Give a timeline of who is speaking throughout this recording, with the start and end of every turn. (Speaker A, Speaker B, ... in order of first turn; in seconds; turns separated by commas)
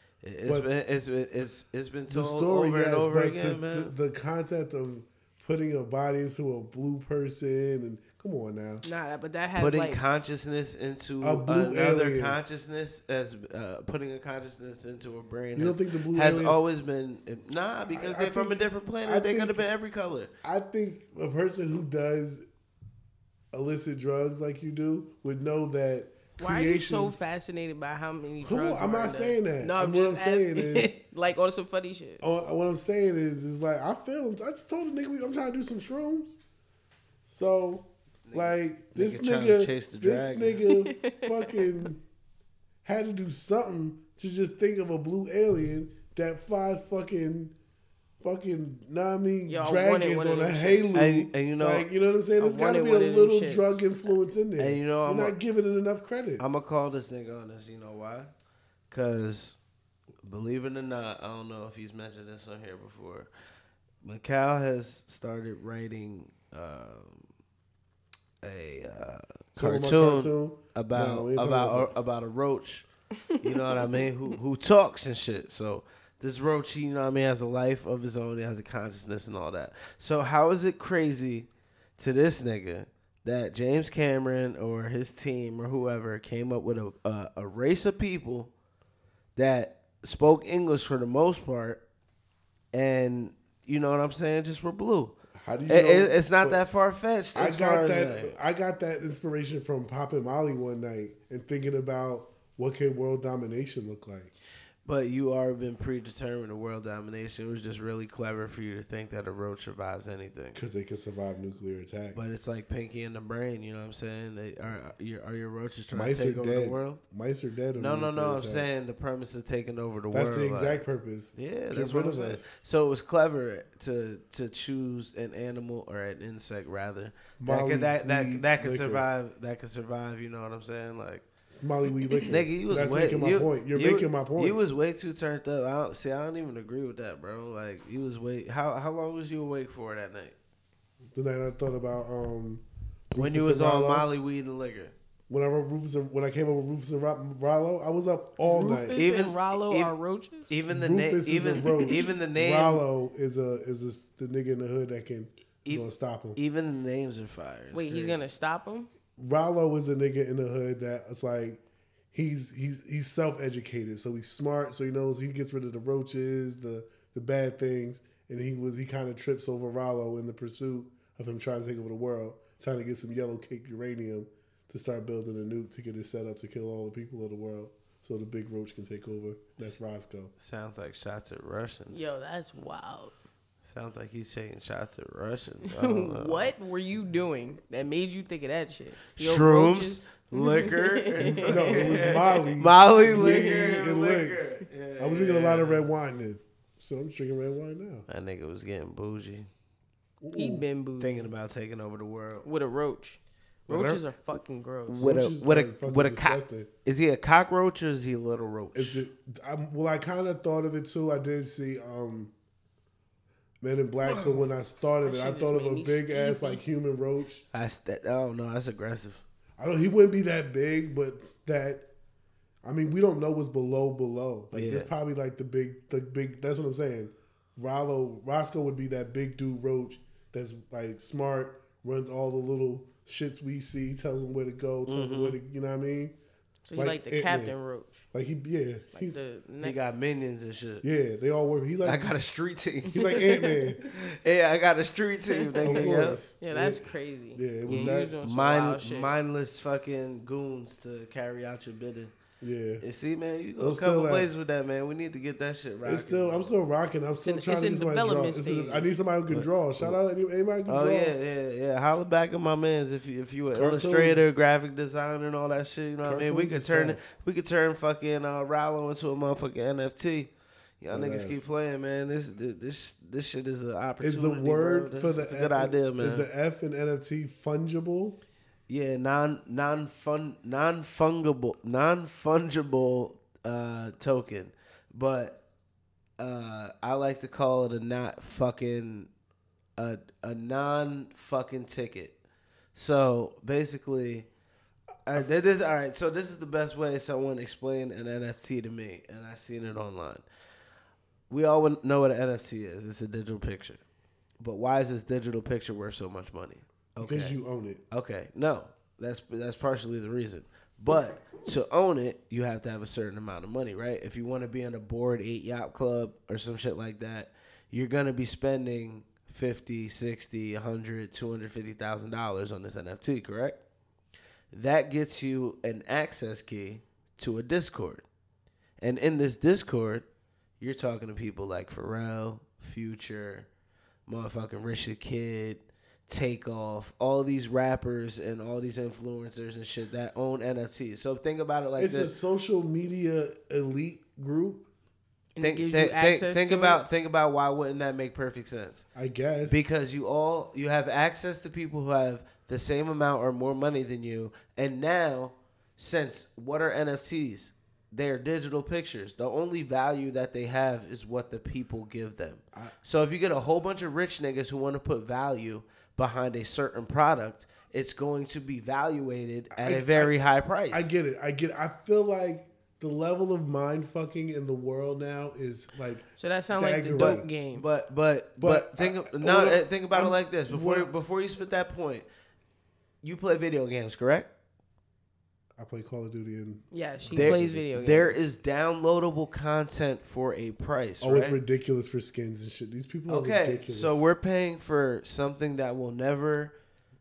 Speaker A: 0.2-3.9, Speaker B: 2.1-8.8, Speaker C: 8.8-10.0, Speaker A: 9.6-20.3, Speaker B: 11.2-12.4, Speaker B: 15.6-16.6, Speaker B: 17.9-19.6, Speaker B: 20.4-22.5, Speaker B: 23.5-27.2, Speaker C: 26.4-32.2, Speaker B: 28.4-31.0, Speaker B: 32.2-36.4, Speaker B: 37.3-42.0, Speaker A: 38.3-40.6, Speaker C: 40.7-41.6, Speaker B: 42.8-47.5, Speaker B: 48.2-56.4, Speaker C: 49.5-50.9, Speaker A: 50.9-51.9, Speaker C: 52.4-54.1, Speaker A: 54.6-55.4, Speaker A: 56.4-58.3, Speaker A: 58.9-59.6, Speaker A: 60.2-63.3, Speaker A: 64.0-67.3, Speaker A: 68.4-72.9, Speaker B: 69.6-71.9, Speaker C: 73.3-73.9, Speaker A: 73.4-88.5, Speaker A: 89.4-91.8, Speaker A: 92.7-95.2, Speaker B: 95.3-96.6, Speaker A: 95.7-98.3, Speaker B: 97.3-104.3, Speaker A: 104.8-110.6, Speaker B: 110.5-112.2, Speaker A: 112.1-117.0, Speaker B: 115.9-118.7, Speaker A: 117.8-131.3, Speaker B: 120.1-122.6, Speaker B: 127.4-129.1, Speaker B: 131.5-134.6, Speaker A: 132.2-140.4, Speaker B: 141.1-144.1, Speaker A: 143.2-144.9, Speaker B: 145.3-149.0, Speaker C: 148.4-150.5, Speaker A: 148.9-149.9, Speaker A: 150.5-152.8, Speaker B: 150.7-156.4, Speaker A: 155.7-158.2, Speaker C: 157.7-158.9, Speaker B: 159.2-161.6, Speaker B: 162.1-180.3, Speaker A: 180.4-182.0, Speaker C: 181.9-183.2, Speaker A: 183.6-186.5, Speaker C: 185.7-192.4, Speaker A: 189.2-195.9, Speaker B: 191.4-198.1, Speaker C: 193.1-193.7, Speaker A: 198.1-199.5, Speaker B: 200.2-200.7, Speaker C: 200.3-201.3, Speaker A: 201.0-202.5, Speaker C: 202.4-205.2, Speaker A: 203.7-204.0, Speaker A: 204.9-209.0, Speaker B: 205.0-206.7, Speaker B: 208.7-212.3, Speaker B: 213.6-217.4, Speaker C: 215.0-216.6, Speaker A: 217.5-219.2, Speaker B: 219.6-221.9, Speaker B: 222.6-236.2, Speaker A: 224.5-224.9, Speaker A: 234.9-235.4, Speaker C: 236.7-238.1, Speaker B: 236.8-237.6, Speaker B: 238.1-239.2, Speaker C: 238.9-239.8, Speaker A: 239.6-240.8, Speaker B: 240.8-242.1, Speaker A: 241.8-246.2, Speaker B: 242.9-243.8, Speaker C: 242.9-243.7, Speaker C: 245.3-249.1, Speaker B: 245.6-248.2, Speaker A: 247.7-252.1, Speaker B: 252.4-252.8, Speaker A: 252.8-256.5, Speaker B: 253.6-254.3, Speaker B: 255.8-261.1, Speaker C: 257.2-258.9, Speaker A: 259.3-260.0, Speaker A: 260.7-276.3, Speaker B: 263.5-264.2, Speaker B: 266.0-267.0, Speaker B: 270.9-271.4, Speaker B: 274.0-278.2, Speaker A: 278.7-285.4, Speaker A: 286.2-289.1, Speaker A: 289.8-292.2, Speaker A: 292.8-294.3, Speaker A: 295.1-300.2, Speaker A: 301.3-303.8, Speaker A: 304.4-307.4, Speaker B: 307.0-307.8, Speaker A: 307.9-323.6, Speaker A: 324.5-328.1, Speaker A: 328.8-330.1, Speaker A: 330.6-333.5, Speaker A: 334.1-342.1, Speaker B: 341.8-344.7, Speaker C: 345.4-346.8, Speaker A: 345.4-348.9, Speaker B: 348.9-349.7, Speaker A: 349.5-370.9, Speaker B: 369.5-370.1, Speaker B: 370.7-377.3, Speaker C: 376.2-377.7, Speaker A: 377.0-382.1, Speaker B: 378.4-380.9, Speaker A: 383.0-384.3, Speaker B: 385.6-387.7, Speaker C: 386.7-388.1, Speaker A: 387.1-391.4, Speaker B: 391.0-394.1, Speaker A: 393.1-396.6